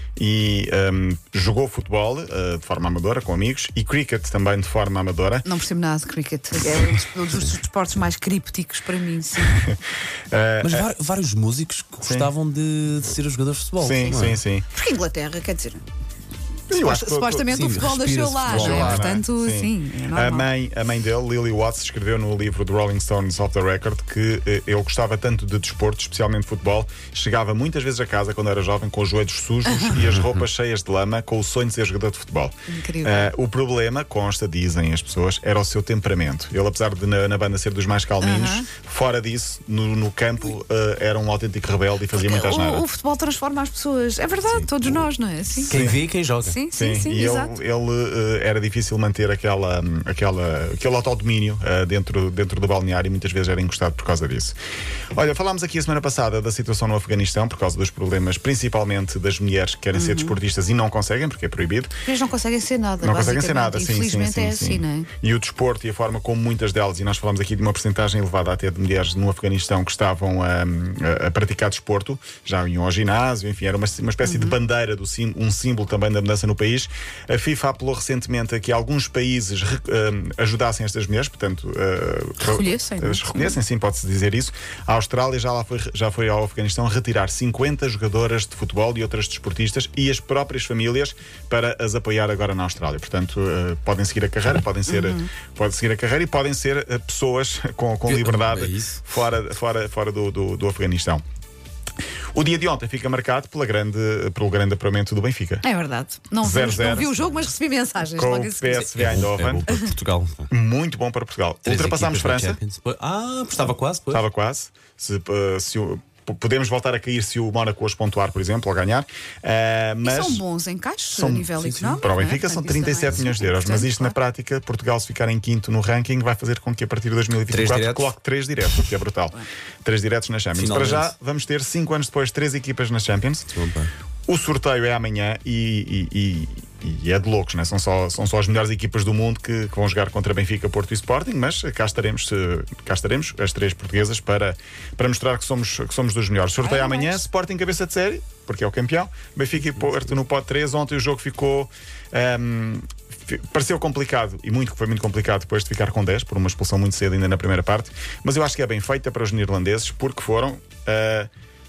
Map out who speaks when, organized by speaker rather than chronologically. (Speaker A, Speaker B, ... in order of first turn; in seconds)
Speaker A: 0.2-5.5, 9.5-9.8, 10.3-10.9, 12.0-12.3, 13.8-14.7, 16.7-17.6, 18.5-42.9, 45.7-46.0, 46.8-54.6, 55.1-62.0, 63.0-101.2, 102.3-105.7, 106.4-107.2, 108.2-109.7, 110.5-112.6, 114.1-120.4, 121.1-133.5, 134.3-161.3
Speaker B: 5.5-9.6, 14.7-15.8, 16.8-20.5, 29.7-30.0, 32.7-33.3, 38.2-38.7, 42.1-45.9, 46.4-47.5, 59.9-60.4, 62.0-65.1, 74.2-74.6, 82.4-83.6, 94.9-95.3, 105.6-108.9, 120.0-124.2, 146.6-147.2
Speaker C: 10.6-14.4, 17.5-19.1, 44.4-45.0, 45.6-46.6, 98.0-99.0, 108.7-110.5, 111.6-114.2, 121.6-122.0, 127.5-128.2, 130.5-131.2, 133.5-133.9